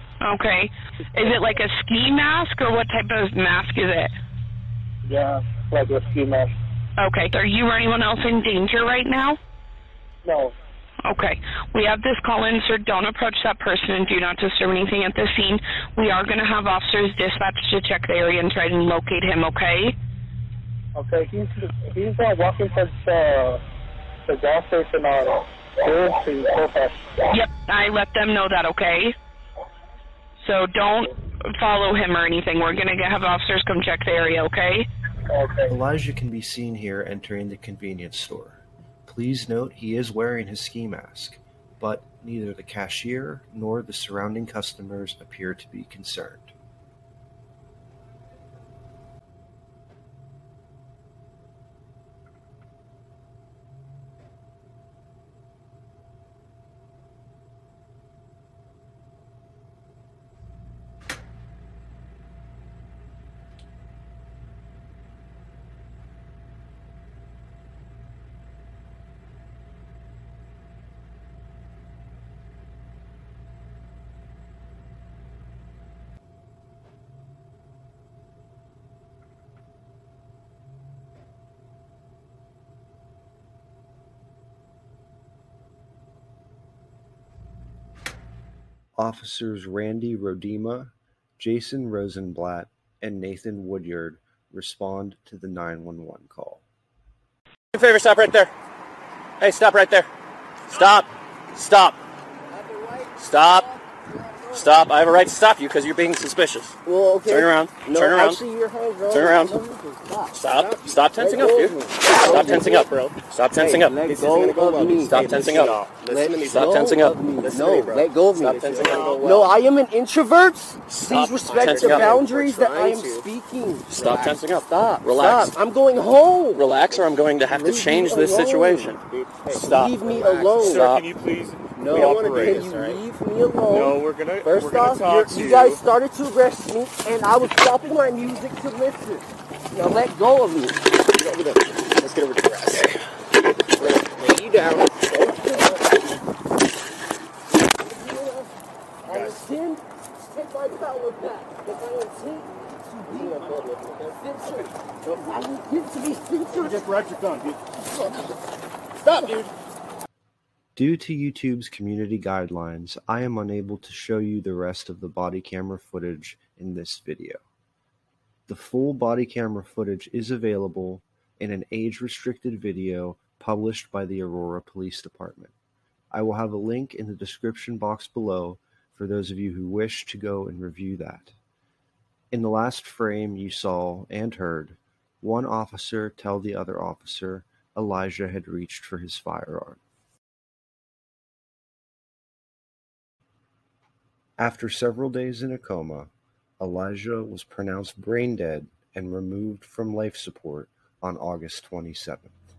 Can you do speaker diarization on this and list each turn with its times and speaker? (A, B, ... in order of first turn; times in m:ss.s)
0:00.2-0:04.1 A
0:05.0-0:06.5 B
0:07.0-0:09.4 A
0:10.2-0:10.5 B
0:11.0-0:19.9 A
0:20.9-0:23.6 B
0:24.3-0:27.1 B
0:27.3-0:29.1 A
0:30.4-0:34.9 A
0:35.3-0:35.7 B
0:35.7-0:46.5 C
1:29.0-1:36.6 C
1:37.7-1:38.5 D
1:39.4-1:40.1 D
1:40.7-1:42.0 D
1:42.5-1:44.8 E
1:43.2-1:43.7 D
1:44.5-1:46.8 D
1:46.8-2:04.5 E
1:47.3-1:48.4 D
1:49.1-1:49.6 D
1:50.3-1:59.5 D
1:58.6-1:59.1 F
2:00.9-2:03.2 D
2:03.9-2:05.6 D
2:05.0-2:11.0 E
2:06.5-2:11.2 D
2:10.7-2:12.6 F
2:11.7-2:20.9 E
2:11.9-2:13.0 D
2:13.7-2:15.8 F
2:21.3-2:22.9 D
2:23.8-2:26.0 E
2:27.8-2:28.5 E
2:29.0-2:37.0 E
2:37.8-2:38.3 E
2:39.0-2:39.5 E
2:40.7-2:47.4 C
2:48.5-2:55.5 C
2:56.1-3:01.3 C
3:02.3-3:09.8 C
3:14.4-3:22.4 C